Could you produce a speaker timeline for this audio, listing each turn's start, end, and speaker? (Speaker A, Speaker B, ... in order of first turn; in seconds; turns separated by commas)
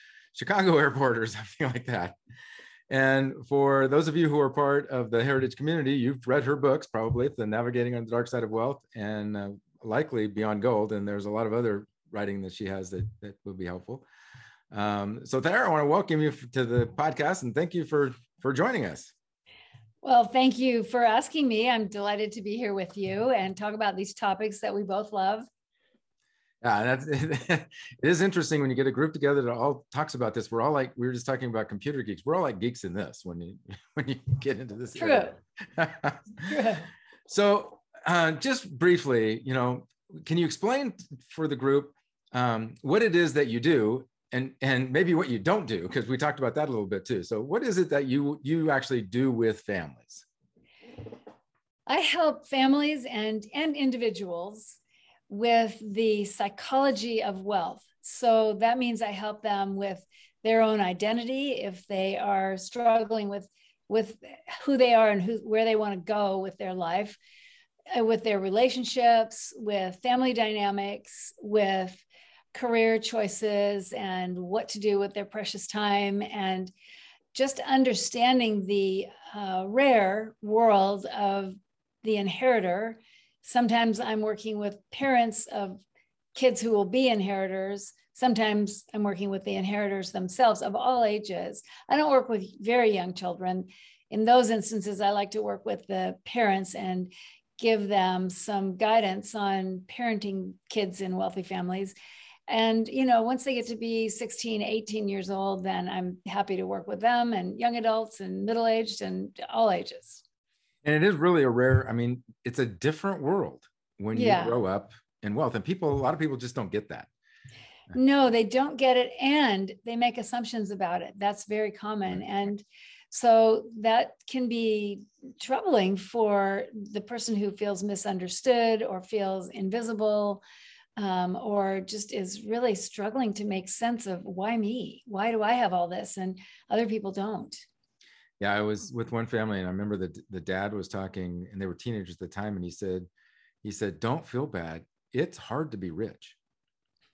Speaker A: 0.3-2.2, Speaker A: 2.9-14.0, Speaker A: 14.7-19.1, Speaker B: 20.0-25.4, Speaker A: 26.6-36.4, Speaker B: 35.0-35.4, Speaker B: 36.4-36.9, Speaker A: 37.3-50.2, Speaker B: 51.9-67.2, Speaker B: 67.9-76.7, Speaker B: 77.3-85.8, Speaker B: 86.3-101.9, Speaker B: 102.5-110.2, Speaker A: 110.8-117.1, Speaker B: 114.1-114.6, Speaker B: 117.9-130.4, Speaker B: 131.0-137.6, Speaker A: 138.4-143.1, Speaker A: 143.6-146.3